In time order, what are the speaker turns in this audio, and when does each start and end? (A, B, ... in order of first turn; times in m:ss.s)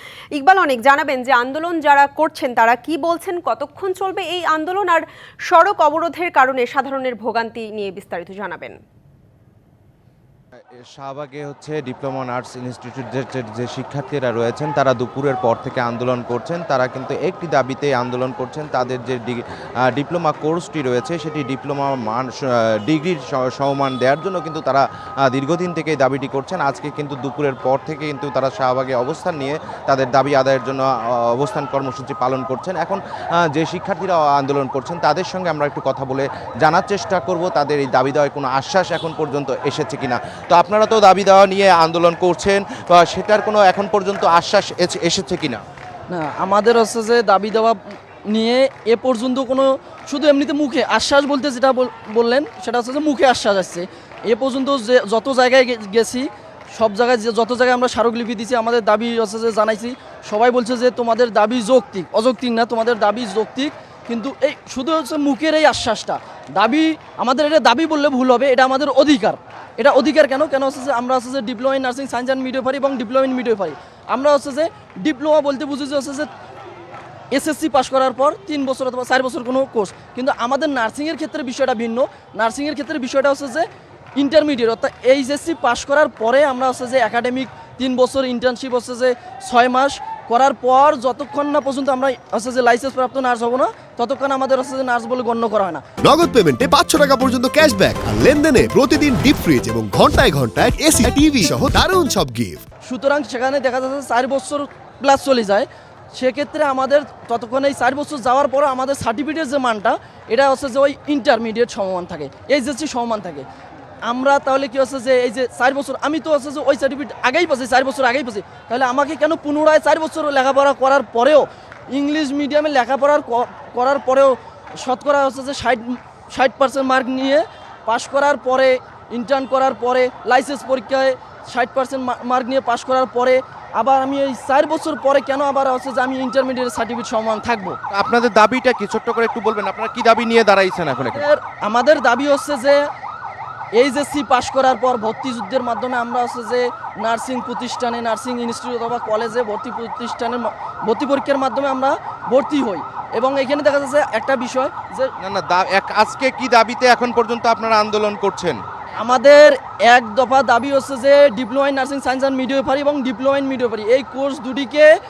0:00.4-0:08.8 A
0:10.8-0:45.6 B
0:46.1-1:16.3 C
1:17.3-1:23.7 C
1:24.2-1:35.8 C
1:36.0-1:42.6 D
1:42.8-1:53.5 C
1:54.1-2:17.8 C
2:17.9-2:21.3 B
2:21.1-2:22.9 C
2:23.8-2:35.1 C
2:35.2-2:38.6 B
2:39.0-2:44.9 C